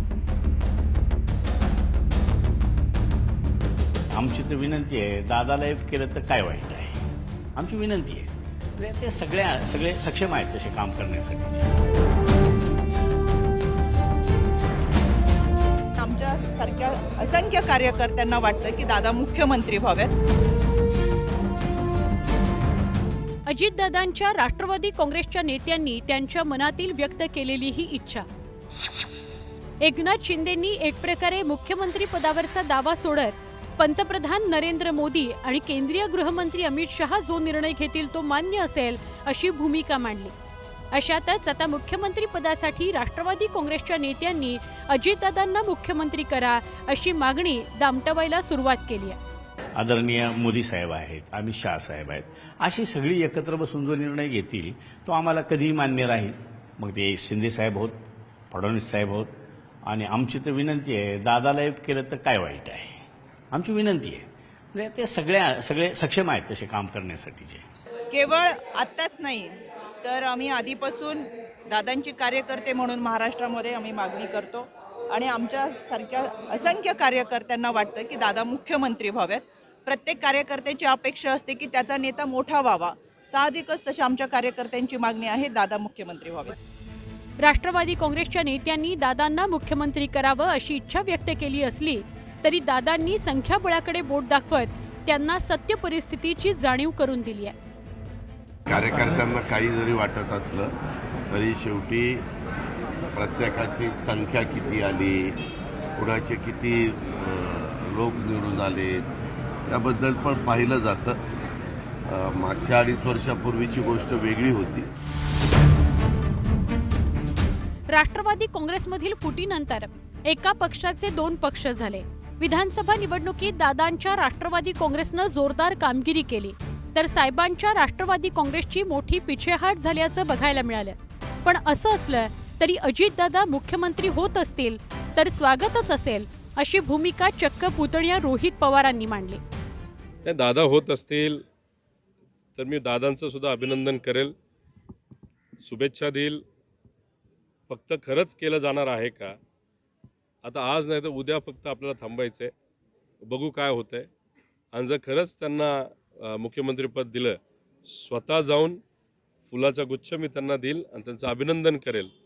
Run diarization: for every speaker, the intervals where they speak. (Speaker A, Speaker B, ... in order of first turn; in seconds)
Speaker A: 4.1-11.7, 49.8-59.3, 59.9-67.6
Speaker B: 16.0-20.1, 68.1-86.5
Speaker C: 23.4-28.2, 29.8-40.3, 40.9-49.2, 87.4-97.5, 117.9-139.4
Speaker D: 98.7-100.7, 101.3-102.2, 103.1-105.4, 106.0-109.1, 109.7-111.2, 112.1-114.9
Speaker E: 140.2-141.4, 142.6-144.3, 145.6-146.4, 147.7-149.3, 150.4-152.5, 153.3-154.1, 154.7-157.4, 157.9-158.8, 159.5-162.1